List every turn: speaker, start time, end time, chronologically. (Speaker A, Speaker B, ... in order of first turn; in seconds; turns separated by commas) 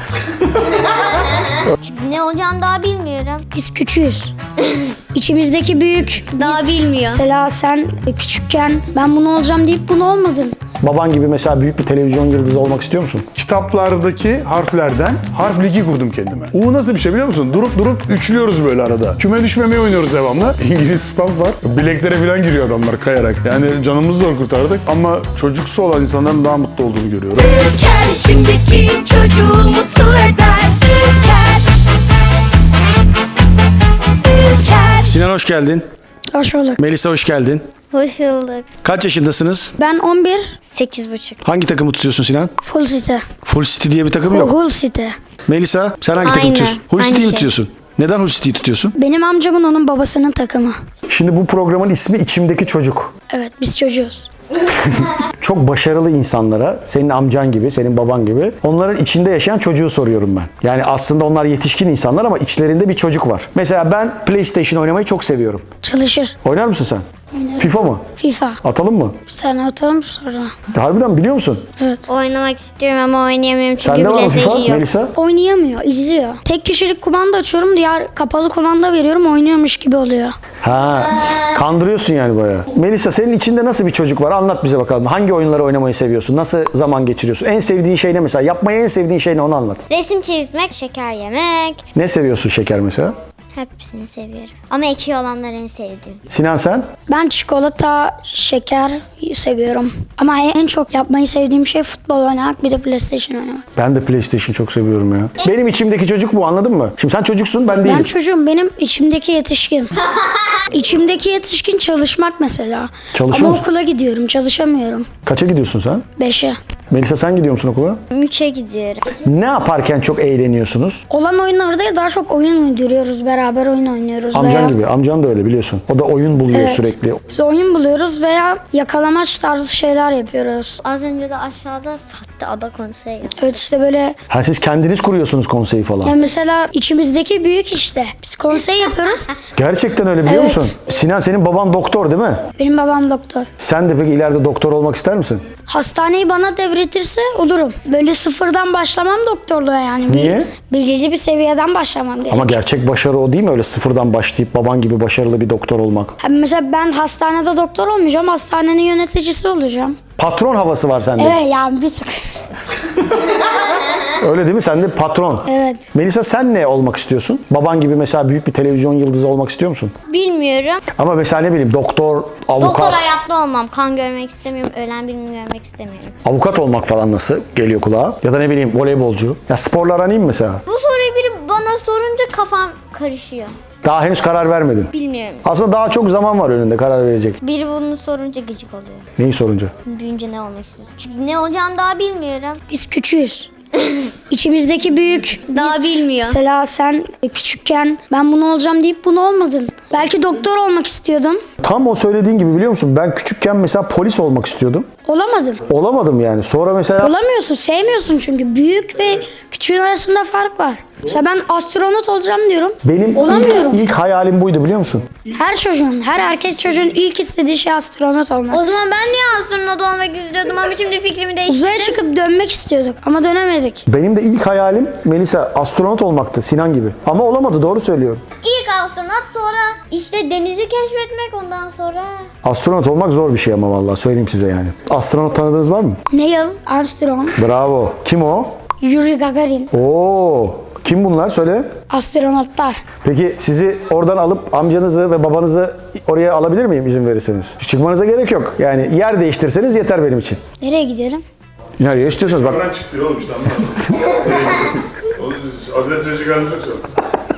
Speaker A: 0.8-3.5, Speaker B: 3.5-4.3, Speaker A: 4.6-4.9, Speaker B: 5.1-10.6, Speaker A: 6.4-7.2, Speaker C: 10.8-13.3, Speaker D: 13.3-27.6, Speaker E: 27.4-31.6, Speaker E: 34.3-35.2, Speaker C: 35.0-35.8, Speaker B: 36.3-36.8, Speaker C: 36.8-37.6, Speaker A: 37.9-38.7, Speaker C: 38.8-39.8, Speaker B: 39.8-40.5, Speaker A: 40.7-41.4, Speaker C: 41.4-42.5, Speaker B: 42.6-43.2, Speaker C: 43.4-44.5, Speaker B: 44.3-45.1, Speaker C: 45.5-48.9, Speaker A: 46.2-47.5, Speaker B: 49.0-50.8, Speaker C: 51.1-53.1, Speaker B: 53.3-54.3, Speaker C: 54.6-65.7, Speaker B: 65.8-66.3, Speaker C: 66.4-68.0, Speaker B: 67.3-68.6, Speaker C: 68.6-69.2, Speaker B: 69.3-70.5, Speaker C: 70.7-71.7, Speaker B: 71.8-72.0, Speaker A: 72.1-74.9, Speaker C: 73.8-75.1, Speaker B: 75.2-80.3, Speaker C: 80.6-89.8, Speaker A: 89.9-91.8, Speaker C: 91.9-93.1, Speaker A: 93.5-96.2, Speaker C: 96.3-96.9, Speaker B: 97.1-103.6, Speaker C: 103.8-108.1, Speaker B: 107.8-109.9, Speaker B: 110.7-115.1, Speaker C: 113.1-113.6, Speaker C: 115.2-116.1, Speaker B: 116.2-116.6, Speaker C: 116.9-118.0, Speaker A: 118.1-119.1, Speaker C: 119.2-121.0, Speaker B: 121.1-124.8, Speaker C: 124.3-127.2, Speaker B: 126.5-130.8, Speaker A: 130.8-133.5, Speaker B: 133.3-134.2, Speaker C: 134.3-136.2, Speaker B: 136.0-139.3, Speaker C: 139.5-142.4, Speaker B: 140.2-140.7, Speaker B: 142.5-143.5, Speaker C: 143.6-145.4, Speaker B: 145.7-152.6, Speaker C: 150.1-150.5, Speaker C: 152.3-156.2, Speaker B: 156.2-160.0, Speaker C: 160.2-161.4, Speaker B: 161.2-162.1, Speaker C: 164.2-169.9, Speaker B: 165.5-165.9, Speaker A: 170.1-170.8, Speaker C: 170.9-173.1, Speaker A: 172.6-176.2, Speaker C: 176.2-180.6, Speaker A: 180.7-183.6, Speaker C: 183.8-184.9, Speaker A: 184.9-185.4, Speaker C: 185.4-187.4, Speaker A: 187.4-189.1, Speaker C: 189.2-189.7, Speaker A: 189.8-192.6, Speaker B: 192.7-193.5, Speaker A: 193.8-194.1, Speaker B: 194.3-201.4, Speaker A: 195.5-196.4, Speaker C: 201.6-204.9, Speaker B: 205.1-205.6, Speaker C: 205.7-207.1, Speaker B: 207.0-213.8, Speaker C: 212.8-215.1, Speaker B: 215.3-218.8, Speaker A: 218.5-222.0, Speaker B: 221.5-223.8, Speaker C: 223.9-228.2, Speaker A: 228.4-232.2, Speaker C: 232.4-236.0, Speaker B: 236.1-237.4, Speaker C: 237.3-238.5, Speaker B: 238.8-239.7, Speaker C: 239.7-241.7, Speaker B: 241.9-242.8, Speaker C: 243.0-250.4, Speaker B: 250.6-251.2, Speaker C: 251.8-252.6, Speaker D: 252.3-256.8